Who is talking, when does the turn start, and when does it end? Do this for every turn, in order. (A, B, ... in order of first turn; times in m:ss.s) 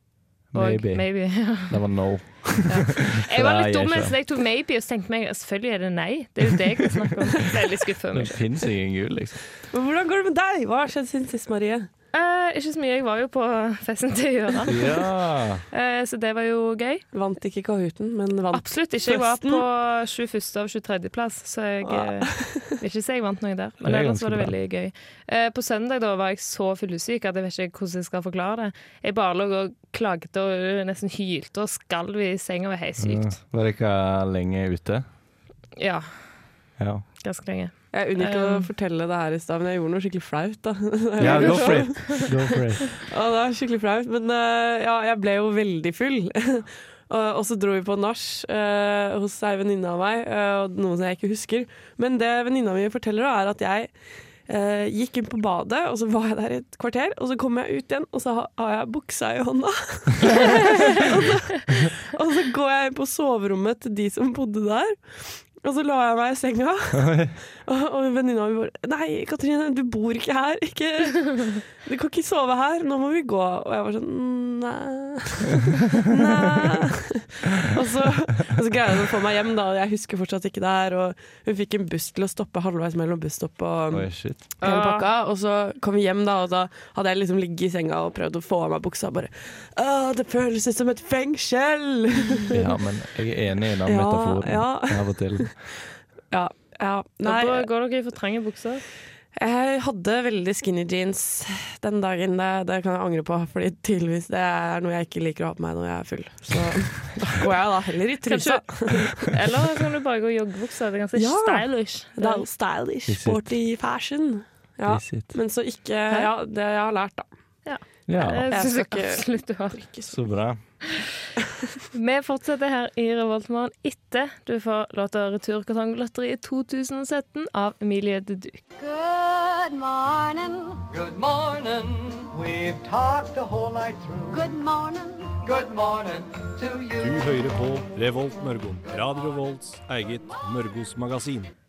0:00.5-0:04.1 A
0:00.5-0:01.8 B
0:02.7-0:08.4 B
0:08.1-0:09.4 A
0:09.7-0:11.9 C
0:12.1-0:14.9 B
0:14.7-0:15.6 A
0:15.7-0:17.0 B
0:17.1-0:19.6 C
0:18.5-0:33.4 B
0:21.8-0:22.7 C
0:23.8-0:24.5 A
0:33.0-0:35.0 A
0:35.8-0:36.1 B
0:36.8-0:37.0 A
0:37.2-0:38.7 B
0:37.9-0:53.9 C
0:41.2-0:42.9 A
0:41.2-0:42.2 B
0:54.5-1:32.7 C
1:06.9-1:07.3 A
1:23.9-1:24.4 A
1:24.6-1:25.1 B
1:32.5-1:35.5 A
1:33.8-1:35.5 C
1:36.3-1:37.7 C
1:37.2-1:38.8 B
1:39.4-1:49.3 C
1:48.2-1:52.4 B
1:51.2-1:57.3 C
1:53.1-1:53.5 A
1:54.8-1:55.3 A
1:57.6-1:59.9 B
1:58.1-1:58.5 A
1:58.5-2:00.1 C
2:00.1-2:00.6 A
2:01.9-2:08.6 B
2:08.8-2:10.8 D
2:10.9-2:14.4 E
2:14.3-2:15.5 D
2:15.5-2:17.2 E
2:17.0-2:21.5 F